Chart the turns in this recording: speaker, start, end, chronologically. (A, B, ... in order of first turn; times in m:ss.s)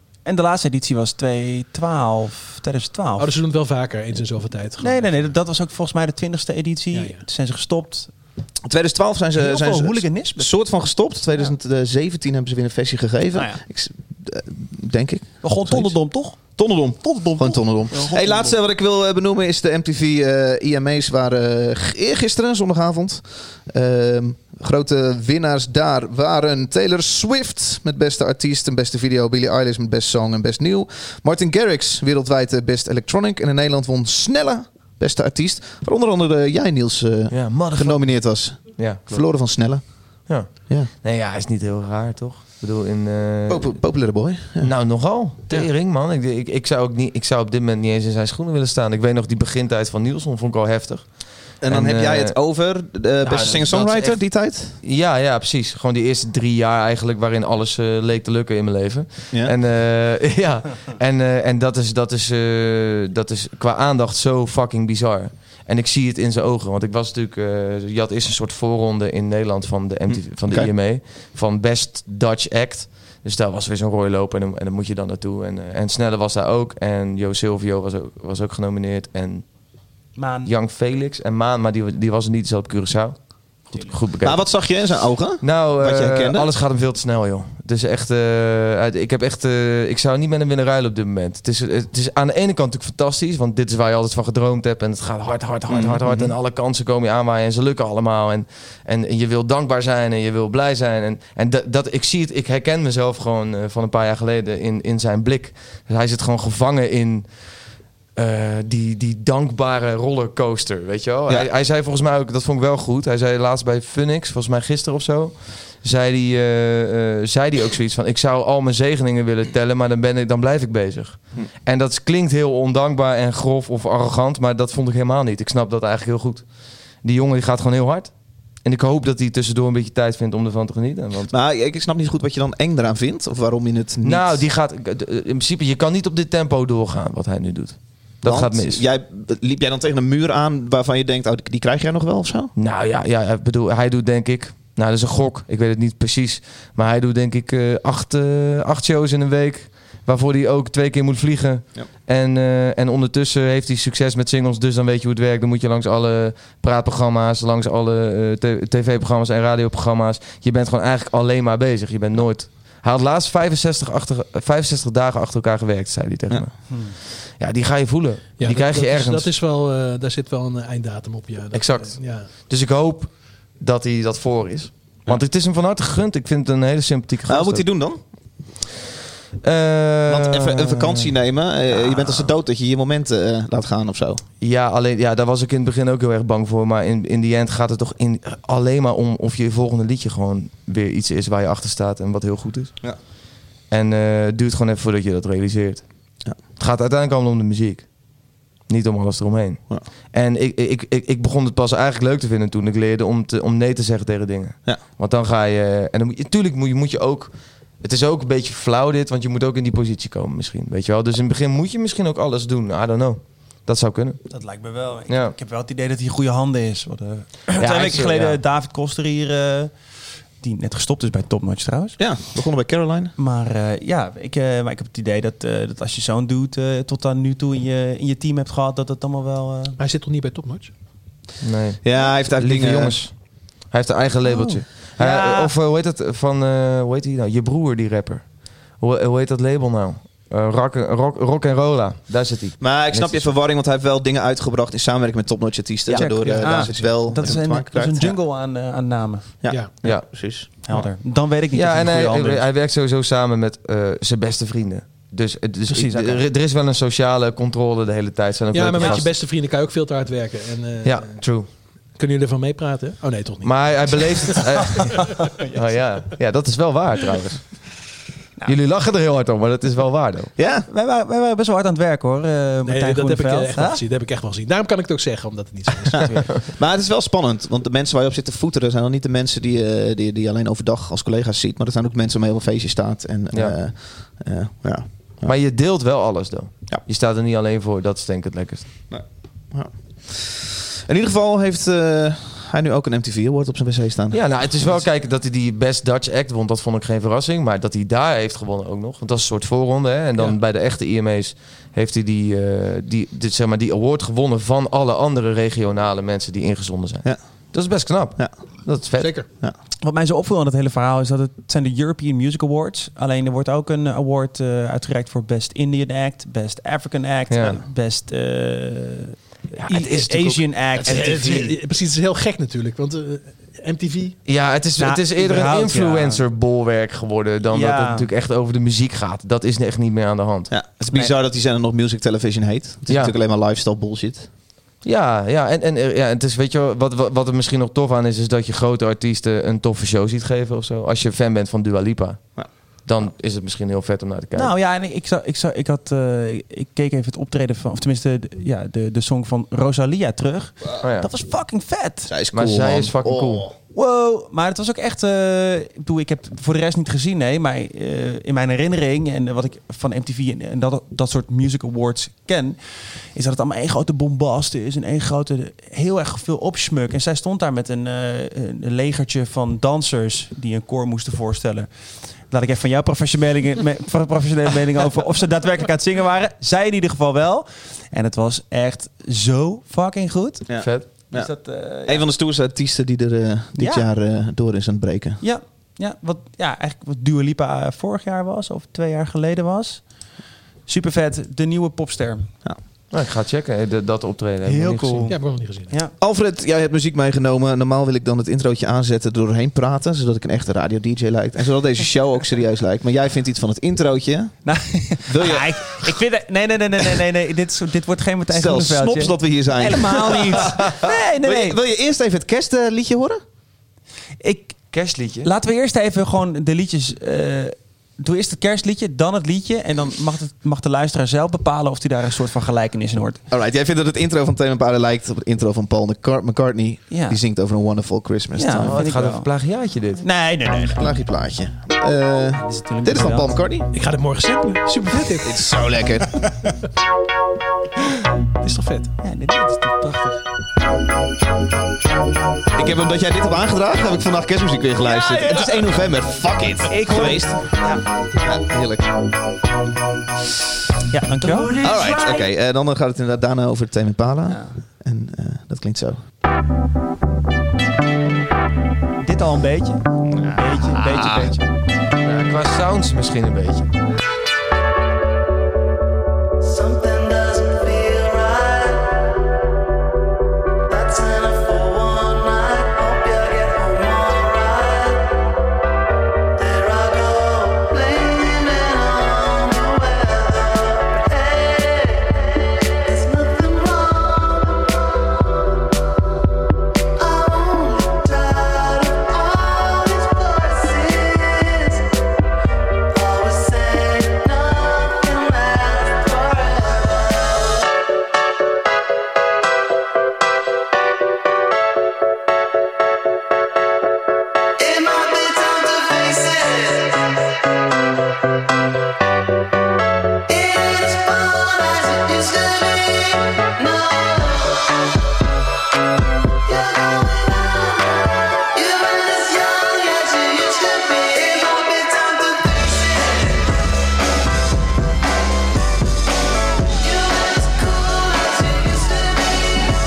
0:00.2-0:03.3 A
0:03.2-0:05.2 B
0:04.8-0:08.1 A
0:06.9-0:07.2 B
0:08.6-0:40.1 C
0:09.3-0:10.5 A
0:13.3-0:13.6 A
0:15.4-0:16.4 A
0:17.0-0:18.6 A
0:37.3-0:39.3 D
0:40.3-0:43.8 D
0:40.6-0:40.9 C
0:43.5-0:44.7 C
0:44.6-0:52.4 D
0:51.6-0:54.8 C
0:53.2-0:54.2 D
0:54.8-1:19.4 D
1:10.1-1:10.7 C
1:20.2-1:20.5 A
1:20.4-1:24.6 D
1:23.7-1:24.0 A
1:24.2-1:26.5 C
1:25.4-1:47.3 D
1:35.7-1:36.3 C
1:48.2-2:06.4 D
2:07.0-2:08.1 D
2:08.6-2:11.3 D
2:11.3-2:14.4 C
2:14.0-2:18.8 D
2:18.2-2:22.5 C
2:22.6-2:46.6 D
2:46.7-2:46.9 A
2:47.3-2:49.3 D
2:48.4-2:52.3 B
2:51.5-2:57.6 D
2:57.3-2:58.0 C
2:59.4-3:01.1 D
3:00.1-3:04.2 C
3:04.4-3:12.7 D
3:13.7-3:15.8 D
3:16.6-3:17.9 D
3:18.7-3:34.2 D
3:34.3-3:39.7 A
3:35.1-3:35.3 D
3:37.6-3:38.4 D
3:40.4-3:42.0 A
3:42.0-3:43.1 C
3:43.2-3:49.8 A
3:49.8-3:50.7 B
3:51.4-4:03.3 D
3:51.8-3:53.0 C
3:54.2-3:55.5 A
4:02.6-4:08.2 C
4:05.9-4:09.3 A
4:06.0-4:07.2 B
4:09.4-4:10.8 C
4:10.6-4:12.5 A
4:11.5-4:19.1 D
4:15.7-4:16.2 A
4:18.5-4:21.2 B
4:18.8-4:19.0 A
4:20.8-4:21.5 D
4:22.0-4:25.2 B
4:23.4-4:27.4 D
4:28.4-4:30.3 D
4:30.4-4:30.7 C
4:30.7-4:33.8 A
4:32.6-4:36.1 B
4:36.5-4:45.4 C
4:45.2-4:48.7 D
4:48.9-4:54.8 C
4:54.1-5:09.2 D
5:09.0-5:09.2 B
5:09.8-5:21.5 A
5:17.3-5:17.6 D
5:19.6-5:21.5 D
5:20.8-5:24.2 B
5:24.2-5:30.5 D
5:24.8-5:26.2 A
5:27.5-5:28.1 A
5:30.5-5:34.3 C
5:32.9-5:33.1 D
5:34.8-5:42.3 D
5:42.8-5:44.5 D
5:44.3-5:52.1 A
5:50.8-5:51.1 D
5:52.1-5:53.5 C
5:52.3-5:53.5 D
5:53.7-6:02.6 A
6:03.1-6:11.7 A
6:12.3-6:22.0 A
6:20.5-6:21.3 C
6:20.6-6:20.9 D
6:21.8-6:25.2 C
6:23.6-6:23.9 A
6:25.2-6:30.0 A
6:30.7-6:32.3 A
6:32.9-6:35.2 D
6:34.4-6:35.9 A
6:35.1-6:35.7 B
6:36.0-6:44.4 C
6:44.4-6:51.6 A
6:45.1-6:45.9 C
6:48.3-6:53.2 C
6:54.2-6:54.6 A
6:54.7-6:55.3 D
6:55.2-7:03.2 A
7:03.3-7:08.8 C
7:06.9-7:07.2 A
7:08.4-7:09.3 A
7:08.6-7:10.0 D
7:10.0-7:10.9 A
7:10.7-7:13.7 C
7:12.3-7:13.4 A
7:13.7-7:15.4 B
7:15.2-7:16.2 C
7:18.4-7:18.9 B
7:19.0-7:20.2 A
7:22.5-7:27.4 C
7:24.9-7:25.4 A
7:26.7-7:27.8 A
7:28.2-7:28.9 C
7:30.9-7:31.6 A
7:31.6-7:36.0 C
7:34.3-7:34.5 A
7:39.0-7:41.4 A
7:40.1-7:41.4 C
7:42.0-7:43.6 D
7:46.8-7:48.2 E
7:50.9-7:54.3 E
7:57.3-7:59.7 E
8:01.0-8:01.8 E
8:02.9-8:04.0 E
8:07.1-8:11.4 E
8:13.1-8:16.9 E
8:24.6-8:26.6 E
8:30.4-8:32.8 E
8:33.7-8:34.2 E
8:36.9-8:37.5 E
8:38.6-8:43.2 E
8:46.8-8:49.6 E